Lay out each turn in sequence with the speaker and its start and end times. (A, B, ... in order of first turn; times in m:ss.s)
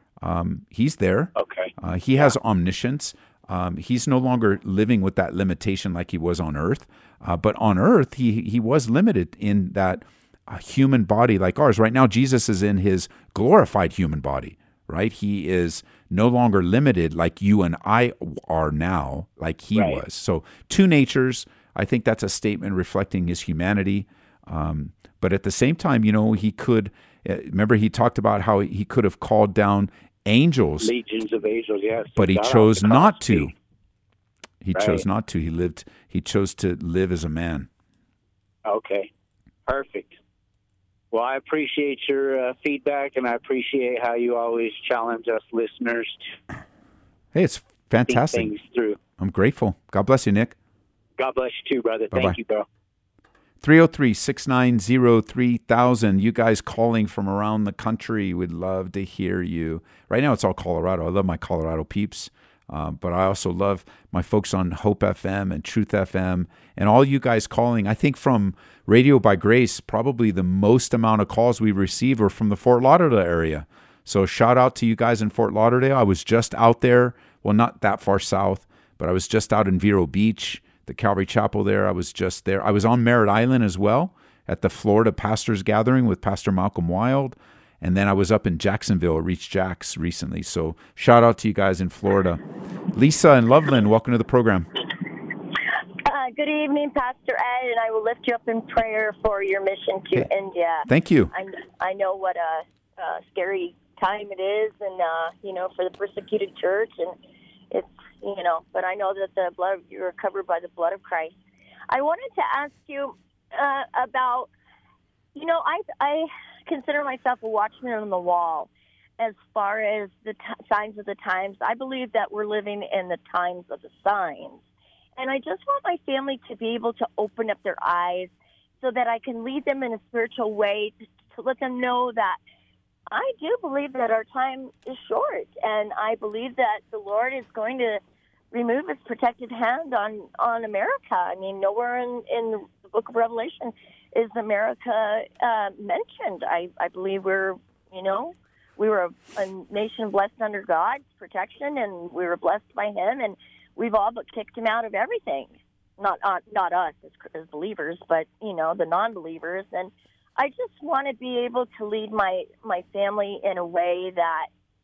0:00.2-0:30.9 A
0:01.4-0:02.4 B
0:19.8-0:20.0 B
0:30.8-0:33.5 B
0:32.1-0:33.5 A
0:34.6-0:37.7 A
0:34.7-0:35.0 B
0:38.7-0:39.1 B
0:39.7-0:40.2 B
0:41.1-0:46.3 B
0:47.3-0:48.5 A
0:48.1-0:49.0 B
0:49.2-0:50.6 A
0:51.2-0:52.7 B
0:52.1-0:52.4 A
0:53.6-1:34.7 A
1:36.0-1:47.2 C
1:40.9-1:41.3 A
1:47.7-1:51.4 C
1:51.9-1:54.5 C
1:55.4-2:04.6 C
2:05.2-2:12.4 C
2:13.1-2:18.0 C
2:18.5-2:44.5 C